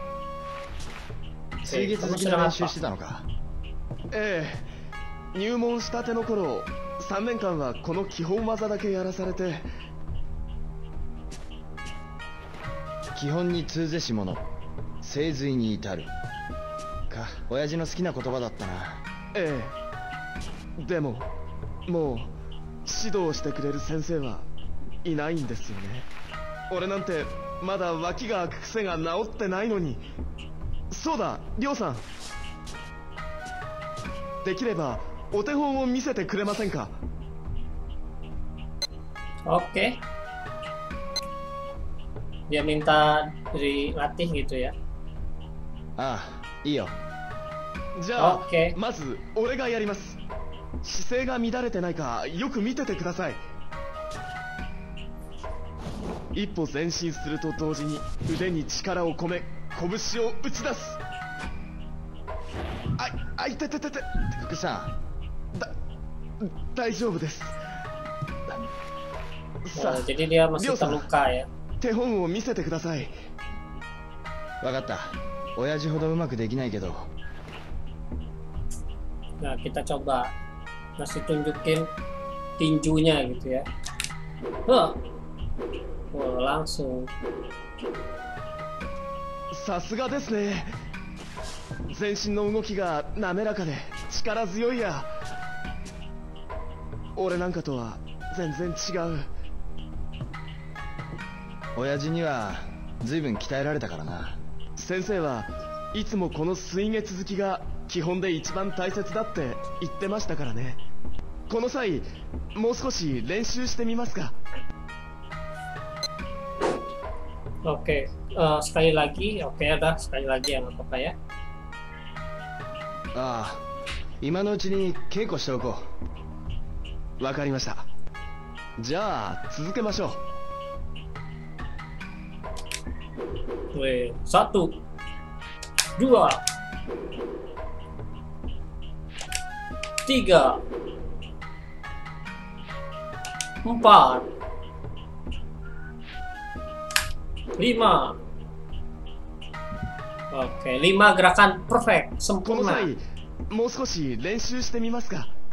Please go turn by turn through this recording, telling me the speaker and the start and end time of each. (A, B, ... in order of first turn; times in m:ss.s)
0:01.6-0:03.3 A
0:01.6-0:02.7 B
0:04.1-0:04.7 C
0:05.3-0:09.7 C
0:13.1-0:14.4 A
0:15.0-0:16.1 A
0:17.1-0:19.0 A
0:19.3-0:19.8 C
0:20.8-0:21.3 C
0:21.9-0:22.3 C
0:22.8-0:24.5 C
0:25.0-0:26.1 C
0:26.7-0:30.0 C
0:30.9-0:32.0 C
0:34.4-0:37.0 C
0:39.5-0:40.0 B
0:42.5-0:44.7 B
0:46.0-0:47.0 A
0:48.0-0:50.2 C
0:48.2-0:48.7 B
0:50.8-0:53.4 C
0:56.3-1:01.0 C
1:03.0-1:04.3 C
1:04.4-1:04.9 A
1:06.4-1:07.6 C
1:09.6-1:11.0 C
1:09.7-1:11.5 B
1:11.8-1:13.1 C
1:14.6-1:17.1 A
1:19.4-1:20.3 B
1:21.0-1:21.9 B
1:22.6-1:23.6 B
1:24.7-1:25.0 B
1:26.1-1:27.1 B
1:29.5-1:30.7 C
1:31.9-1:35.1 C
1:37.2-1:39.3 C
1:41.8-1:44.4 A
1:44.8-1:50.8 C
1:51.5-1:54.4 C
1:57.6-2:01.1 B
2:03.1-2:03.6 A
2:04.2-2:05.9 A
2:07.2-2:07.8 C
2:08.8-2:10.2 C
2:13.7-2:14.8 B
2:16.0-2:16.4 B
2:20.0-2:20.6 B
2:23.6-2:24.2 B
2:27.6-2:28.2 B
2:30.3-2:32.9 B
2:32.4-2:35.3 C